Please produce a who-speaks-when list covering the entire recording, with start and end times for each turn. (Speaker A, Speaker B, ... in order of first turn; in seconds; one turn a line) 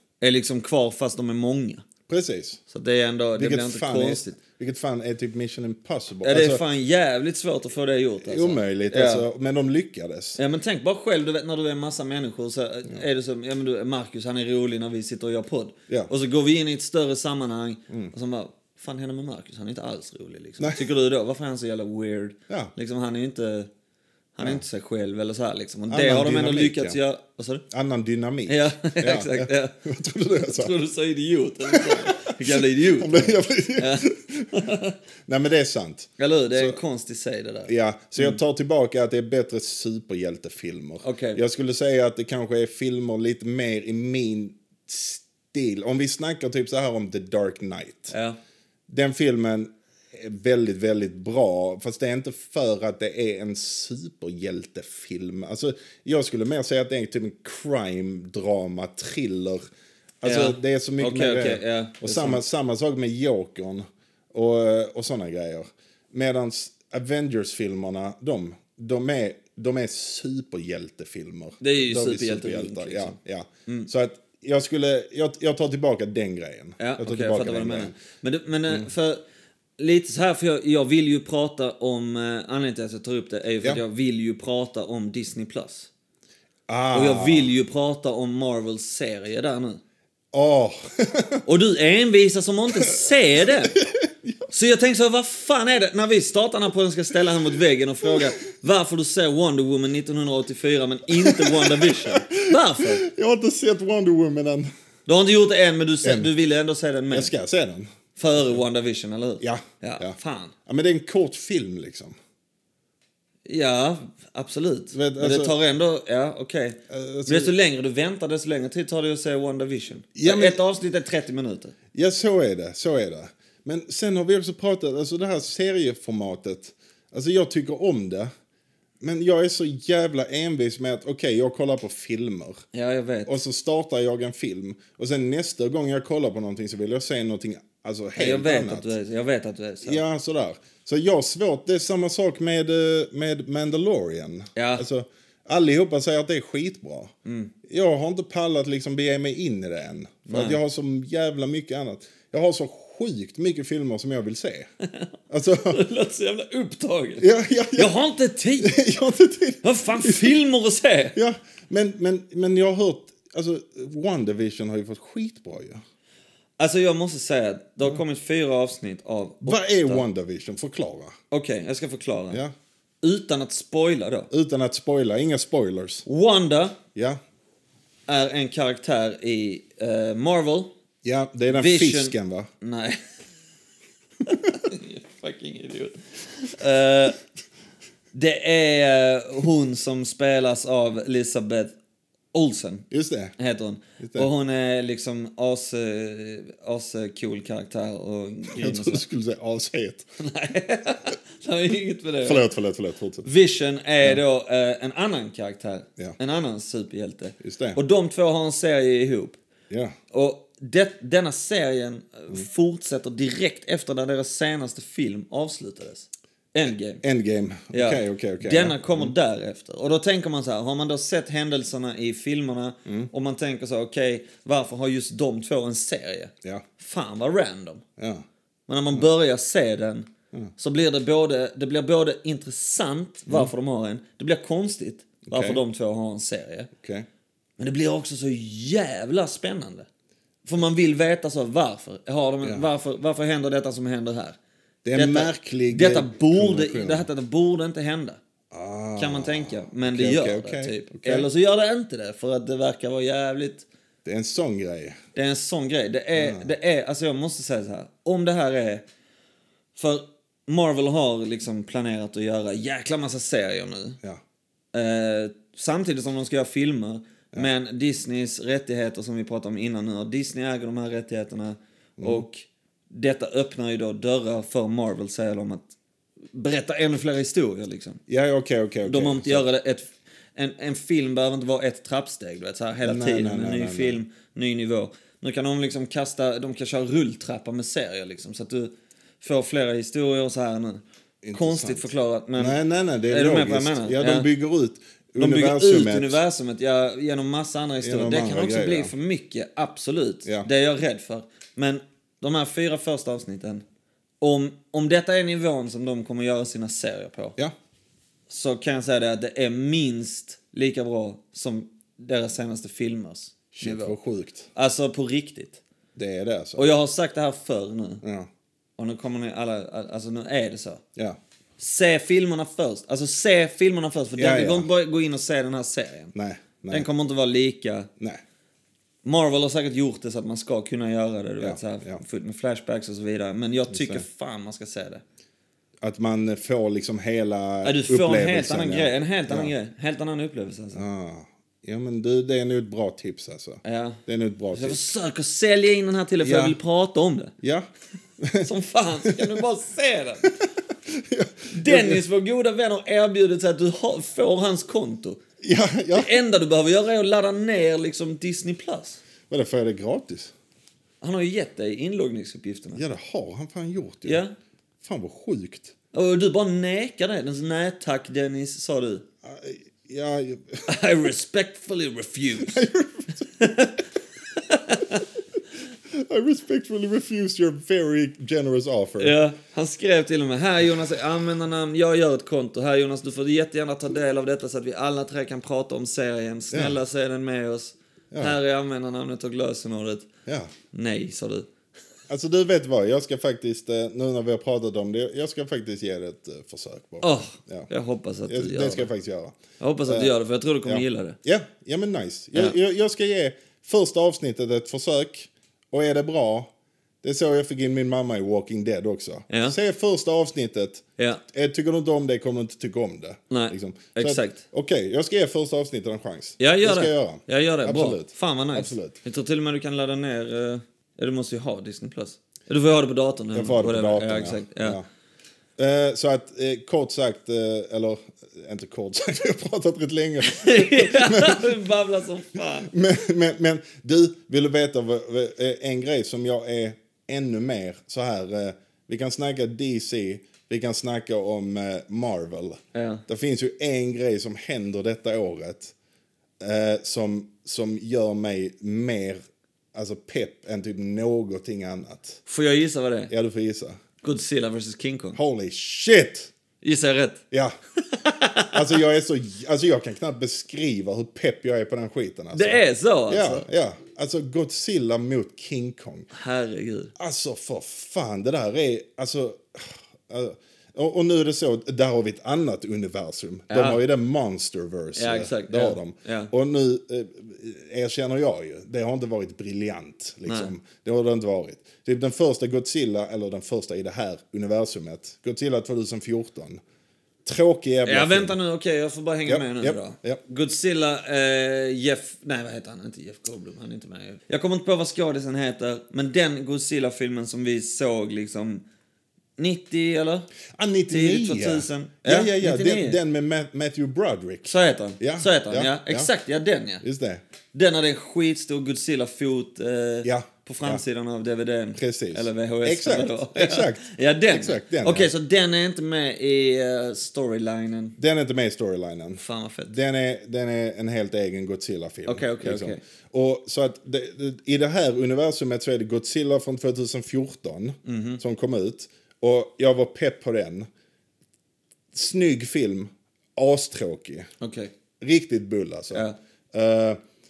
Speaker A: 0.2-1.8
Speaker B: 2.1-2.6
Speaker A: 2.7-4.4
Speaker B: 3.4-6.6
Speaker A: 6.2-9.3
Speaker B: 8.2-10.4
Speaker A: 10.4-23.7
Speaker A: 24.4-27.6
Speaker B: 25.9-27.0
Speaker B: 27.7-30.8
Speaker A: 28.5-29.8
Speaker A: 30.5-35.0
Speaker B: 31.7-34.7
Speaker B: 35.3-36.8
Speaker A: 36.2-38.4
Speaker B: 37.7-48.1
Speaker A: 41.0-41.4
Speaker A: 48.1-48.4
Speaker B: 48.9-59.6
Speaker B: 60.2-77.9
Speaker A: 60.2-62.4
Speaker A: 71.6-73.2
Speaker A: 76.8-79.2
Speaker A: 79.8-85.9
Speaker B: 86.7-87.5
Speaker A: 86.9-89.8
Speaker B: 90.3-91.4
Speaker A: 91.5-93.8
Speaker B: 93.7-94.5
Speaker A: 94.5-103.0
Speaker B: 101.1-104.7
Speaker A: 105.1-107.3
Speaker B: 106.0-106.3
Speaker B: 107.1-107.9
Speaker A: 108.2-110.5
Speaker B: 109.4-112.2
Speaker A: 113.5-121.8
Speaker B: 114.9-115.5
Speaker B: 116.9-117.5
Speaker B: 120.2-120.6
Speaker B: 121.9-128.3
Speaker B: 129.0-132.6
Speaker A: 132.7-133.3
Speaker B: 133.3-138.9
Speaker A: 138.2-140.0
Speaker B: 139.8-147.1
Speaker A: 144.6-144.8
Speaker A: 147.2-147.5
Speaker B: 147.7-154.7
Speaker A: 150.3-150.6
Speaker B: 155.3-155.8
Speaker A: 155.7-157.2
Speaker B: 157.2-158.0
Speaker A: 157.8-158.8
Speaker B: 158.6-160.4
Speaker A: 159.6-161.2
Speaker B: 161.1-165.8
Speaker A: 166.6-170.0
Speaker B: 169.4-171.2
Speaker A: 171.3-172.4
Speaker A: 173.0-174.3
Speaker B: 174.3-176.1
Speaker A: 176.1-176.8
Speaker A: 178.1-180.7
Speaker B: 181.0-182.5
Speaker A: 181.5-183.0
Speaker A: 184.3-187.2
Speaker A: 188.1-191.8
Speaker A: 192.3-192.9
Speaker B: 192.9-193.3
Speaker A: 193.4-199.0
Speaker B: 194.0-194.3
Speaker B: 198.5-200.1
Speaker A: 200.2-202.4
Speaker B: 202.2-203.3
Speaker A: 203.2-209.4
Speaker B: 207.4-207.8
Speaker B: 209.7-210.0
Speaker A: 210.1-217.0
Speaker B: 217.0-219.1
Speaker A: 217.7-227.8
Speaker B: 228.0-228.2
Speaker A: 228.7-236.7
Speaker B: 235.2-235.6
Speaker B: 236.8-237.1
Speaker A: 237.6-239.9
Speaker A: 240.4-244.4
Speaker B: 242.4-242.7
Speaker B: 244.8-247.1
Speaker A: 244.9-248.2
Speaker B: 248.5-251.3
Speaker A: 249.0-253.7
Speaker B: 254.1-255.0
Speaker A: 255.2-258.9
Speaker B: 256.2-256.5
Speaker A: 259.8-264.0
Speaker A: 264.7-275.7
Speaker B: 272.0-272.2
Speaker A: 276.3-278.0
Speaker B: 278.1-279.5
Speaker A: 278.9-290.8
Speaker B: 282.9-284.0
Speaker B: 291.2-296.2
Speaker A: 291.3-292.6
Speaker A: 293.1-294.3
Speaker A: 295.2-303.6
Speaker B: 297.8-298.9
Speaker A: 304.2-307.4
Speaker A: 308.3-314.0
Speaker B: 313.5-314.5
Speaker A: 314.6-315.6
Speaker B: 316.0-316.7
Speaker A: 316.6-318.0
Speaker B: 318.0-318.3
Speaker A: 318.8-320.8
Speaker A: 321.6-326.1
Speaker B: 324.2-324.7
Speaker B: 326.1-326.9
Speaker A: 326.7-327.9
Speaker A: 329.0-335.0
Speaker B: 331.4-332.0
Speaker B: 333.7-334.1
Speaker B: 335.8-339.5
Speaker A: 337.6-340.8
Speaker B: 340.7-344.8
Speaker A: 343.6-344.0
Speaker A: 344.5-347.3
Speaker B: 346.2-346.6
Speaker B: 347.4-347.7
Speaker B: 348.2-348.5
Speaker A: 348.4-350.3
Speaker B: 349.0-349.4
Speaker B: 350.4-352.0
Speaker A: 351.5-355.2
Speaker B: 355.4-356.1
Speaker A: 355.9-359.0
Speaker B: 359.3-360.3
Speaker A: 361.0-362.8
Speaker B: 362.8-364.2
Speaker A: 364.1-364.3
Speaker B: 364.8-365.8
Speaker A: 365.9-369.0
Speaker B: 369.2-370.7
Speaker A: 370.7-372.6
Speaker B: 372.4-373.3
Speaker A: 373.4-373.9
Speaker A: 374.4-375.1
Speaker B: 375.9-379.2
Speaker A: 379.0-390.1
Speaker B: 386.5-386.8
Speaker B: 388.1-388.4
Speaker B: 390.3-390.5
Speaker A: 390.7-391.5
Speaker B: 392.1-397.7
Speaker A: 397.0-398.9
Speaker B: 398.3-400.1
Speaker A: 399.6-401.2
Speaker B: 400.6-406.5
Speaker B: 407.0-419.0
Speaker A: 409.3-409.6
Speaker A: 413.3-414.4
Speaker A: 416.4-424.8
Speaker B: 423.3-424.9
Speaker B: 425.6-431.6
Speaker A: 430.2-432.7
Speaker B: 432.7-445.7
Speaker A: 442.7-443.0
Speaker B: 446.4-449.2
Speaker B: 449.7-452.2
Speaker A: 452.3-453.1
Speaker B: 453.1-453.8
Speaker A: 454.0-455.2
Speaker B: 455.1-456.3
Speaker A: 456.6-457.2
Speaker A: 457.9-458.8
Speaker B: 458.5-466.1
Speaker A: 462.3-463.5
Speaker A: 466.1-466.9
Speaker B: 467.0-486.6
Speaker A: 473.5-473.8
Speaker A: 475.0-476.3
Speaker A: 480.3-480.5
Speaker B: 487.2-488.4
Speaker A: 487.9-498.6
Speaker B: 489.3-490.2
Speaker A: 499.4-500.3
Speaker B: 500.6-506.1
Speaker A: 500.9-503.0
Speaker A: 504.5-506.8
Speaker B: 506.8-507.2
Speaker A: 507.5-518.0
Speaker B: 510.0-510.8
Speaker B: 511.8-515.1
Speaker B: 518.0-530.7
Speaker A: 519.2-519.7
Speaker A: 522.1-522.8
Speaker A: 527.9-528.2
Speaker B: 531.9-534.3
Speaker A: 534.4-534.7
Speaker B: 535.0-537.0